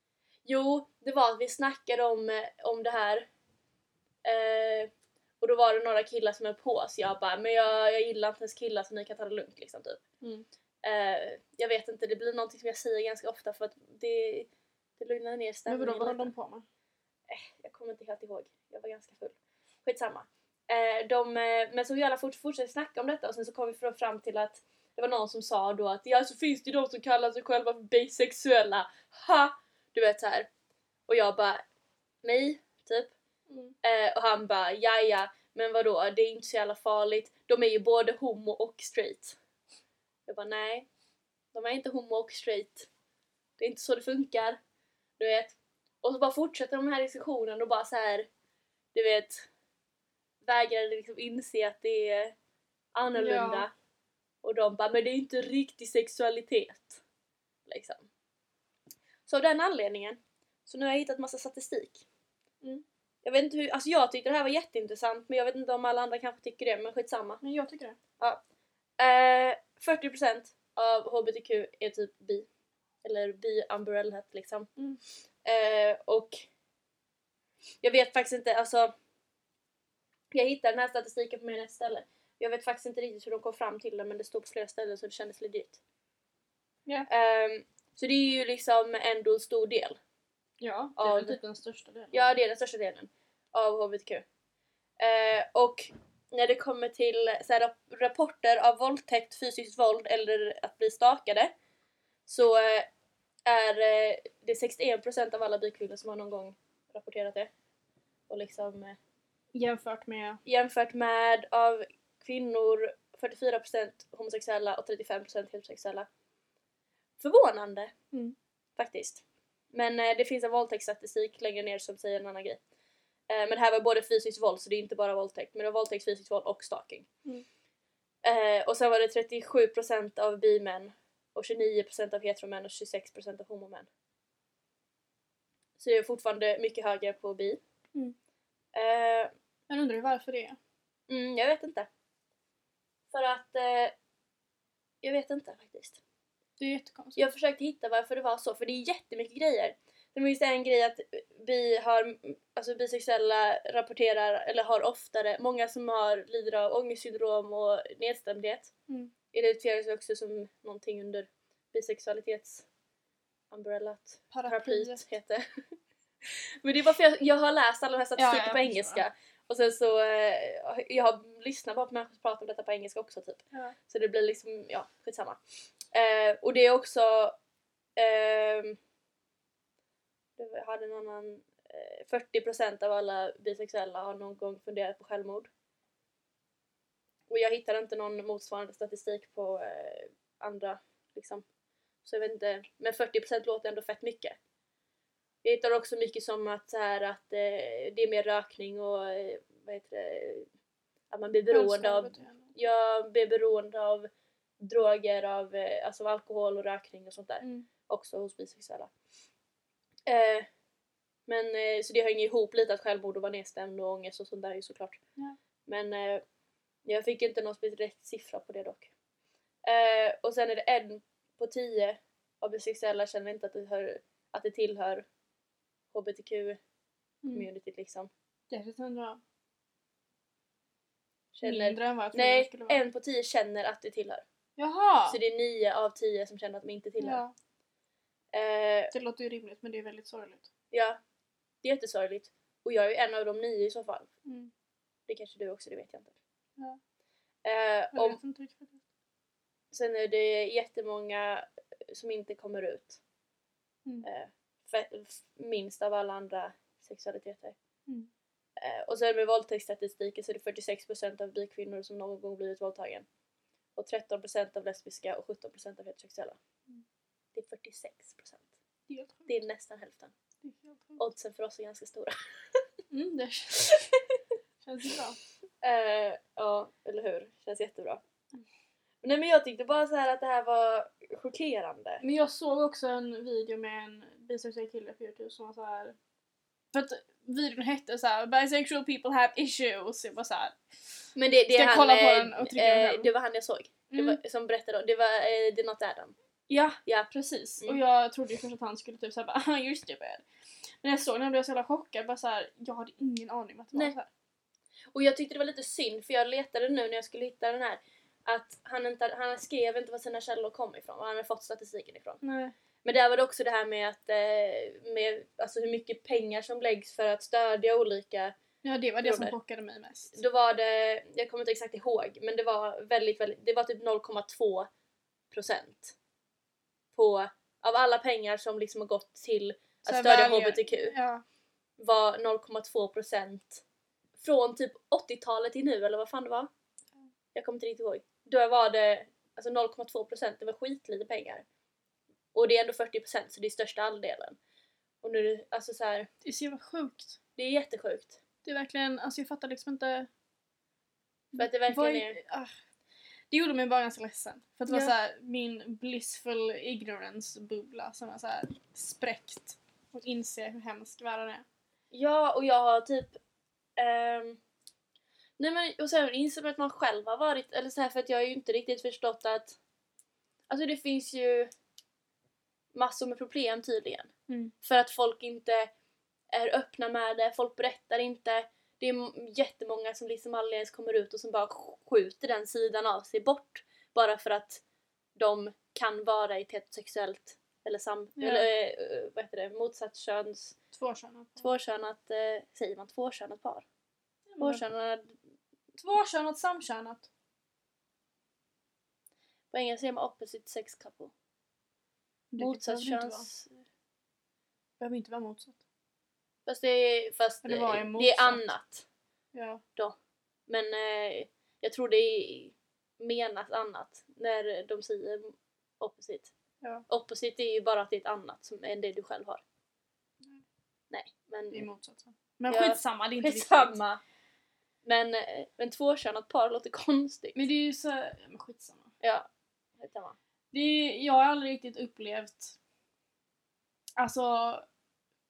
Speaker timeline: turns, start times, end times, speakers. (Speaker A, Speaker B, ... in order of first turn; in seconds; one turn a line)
Speaker A: 0.4-3.3
Speaker A: 4.2-4.9
Speaker A: 5.4-10.0
Speaker A: 10.8-16.3
Speaker B: 15.7-16.6
Speaker A: 17.3-30.5
Speaker A: 31.1-31.6
Speaker A: 32.2-33.1
Speaker B: 33.5-33.7
Speaker A: 33.8-39.4
Speaker A: 40.3-40.9
Speaker A: 41.5-42.9
Speaker A: 43.6-44.6
Speaker A: 45.2-48.3
Speaker A: 48.9-49.5
Speaker A: 50.4-52.3
Speaker A: 52.9-53.7
Speaker B: 53.1-53.7
Speaker A: 54.4-57.0
Speaker A: 57.7-58.1
Speaker A: 59.2-62.0
Speaker A: 63.2-67.4
Speaker B: 67.4-68.0
Speaker A: 69.0-72.5
Speaker A: 73.0-74.7
Speaker A: 75.4-76.4
Speaker A: 77.8-78.9
Speaker A: 80.3-85.8
Speaker A: 87.1-90.0
Speaker B: 90.6-92.3
Speaker A: 91.0-91.4
Speaker A: 92.1-94.2
Speaker A: 95.0-101.5
Speaker A: 102.3-102.9
Speaker A: 103.5-107.5
Speaker A: 108.3-109.0
Speaker B: 109.5-110.4
Speaker A: 110.5-116.1
Speaker A: 117.2-117.9
Speaker A: 118.8-122.6
Speaker A: 123.3-127.1
Speaker A: 128.2-133.9
Speaker A: 135.8-137.6
Speaker A: 138.7-139.3
Speaker B: 139.7-140.6
Speaker A: 141.1-141.9
Speaker A: 143.1-143.9
Speaker A: 145.0-146.0
Speaker B: 146.6-147.2
Speaker A: 147.2-158.7
Speaker A: 159.3-162.7
Speaker A: 163.5-165.7
Speaker B: 164.3-165.0
Speaker A: 166.3-175.4
Speaker B: 168.2-169.0
Speaker A: 175.9-177.3
Speaker A: 177.9-178.8
Speaker A: 180.4-185.5
Speaker A: 187.3-191.4
Speaker A: 192.0-194.4
Speaker A: 195.4-200.5
Speaker A: 201.1-204.1
Speaker B: 201.5-202.5
Speaker A: 204.6-208.9
Speaker B: 207.4-207.7
Speaker A: 210.1-210.5
Speaker A: 211.3-215.0
Speaker A: 215.7-216.2
Speaker A: 216.8-218.9
Speaker A: 219.6-225.0
Speaker A: 225.9-226.6
Speaker A: 227.3-228.1
Speaker B: 228.5-229.2
Speaker A: 231.3-234.2
Speaker B: 231.4-232.8
Speaker B: 234.6-235.2
Speaker A: 235.1-237.2
Speaker B: 237.0-237.3
Speaker A: 238.3-238.9
Speaker B: 238.9-240.5
Speaker A: 240.7-241.0
Speaker A: 241.6-244.1
Speaker B: 244.2-244.5
Speaker A: 245.1-246.2
Speaker A: 247.4-248.2
Speaker B: 247.9-248.8
Speaker A: 249.7-253.0
Speaker A: 254.0-257.6
Speaker A: 258.6-263.1
Speaker A: 263.8-266.4
Speaker A: 267.3-268.5
Speaker B: 268.9-269.3
Speaker A: 269.3-270.1
Speaker B: 270.4-271.0
Speaker A: 271.0-272.6
Speaker B: 272.9-273.9
Speaker B: 274.6-275.2
Speaker A: 275.6-278.0
Speaker A: 279.0-282.0
Speaker B: 282.0-285.9
Speaker B: 286.7-290.6
Speaker A: 291.1-296.1
Speaker B: 291.5-293.1
Speaker B: 293.9-294.2
Speaker B: 296.5-300.2
Speaker A: 296.8-297.8
Speaker B: 300.8-304.1
Speaker A: 304.9-312.2
Speaker B: 312.2-312.5
Speaker A: 312.8-318.4
Speaker B: 318.6-320.1
Speaker A: 319.0-319.4
Speaker A: 320.1-324.7
Speaker A: 325.3-325.9
Speaker A: 326.9-330.9
Speaker B: 329.9-331.2
Speaker A: 331.8-333.6
Speaker A: 334.2-336.5
Speaker A: 337.3-341.4
Speaker A: 342.3-344.4
Speaker A: 345.0-346.1
Speaker B: 346.2-347.2
Speaker A: 347.4-348.2
Speaker B: 348.4-350.1
Speaker B: 351.3-352.5
Speaker A: 351.4-352.2
Speaker B: 353.3-361.4
Speaker A: 361.9-363.2
Speaker A: 363.8-364.4
Speaker A: 365.4-369.6
Speaker A: 370.5-371.5
Speaker A: 372.7-375.7
Speaker A: 376.3-384.6
Speaker A: 385.1-390.6
Speaker B: 388.2-388.5
Speaker B: 390.7-391.5
Speaker A: 391.4-393.6
Speaker B: 394.3-394.6
Speaker A: 394.4-395.1
Speaker B: 395.8-397.1
Speaker A: 399.5-401.1
Speaker B: 402.3-403.3
Speaker A: 402.4-403.5
Speaker B: 404.8-405.6
Speaker A: 406.4-408.9
Speaker B: 407.4-408.5
Speaker B: 409.3-409.6
Speaker A: 410.5-416.3
Speaker A: 416.9-419.4
Speaker A: 420.9-421.6
Speaker B: 421.5-423.8
Speaker A: 422.5-424.0
Speaker A: 424.8-427.5
Speaker B: 427.3-428.9
Speaker A: 429.0-429.3
Speaker A: 429.8-430.1
Speaker B: 430.5-432.6
Speaker B: 434.0-434.6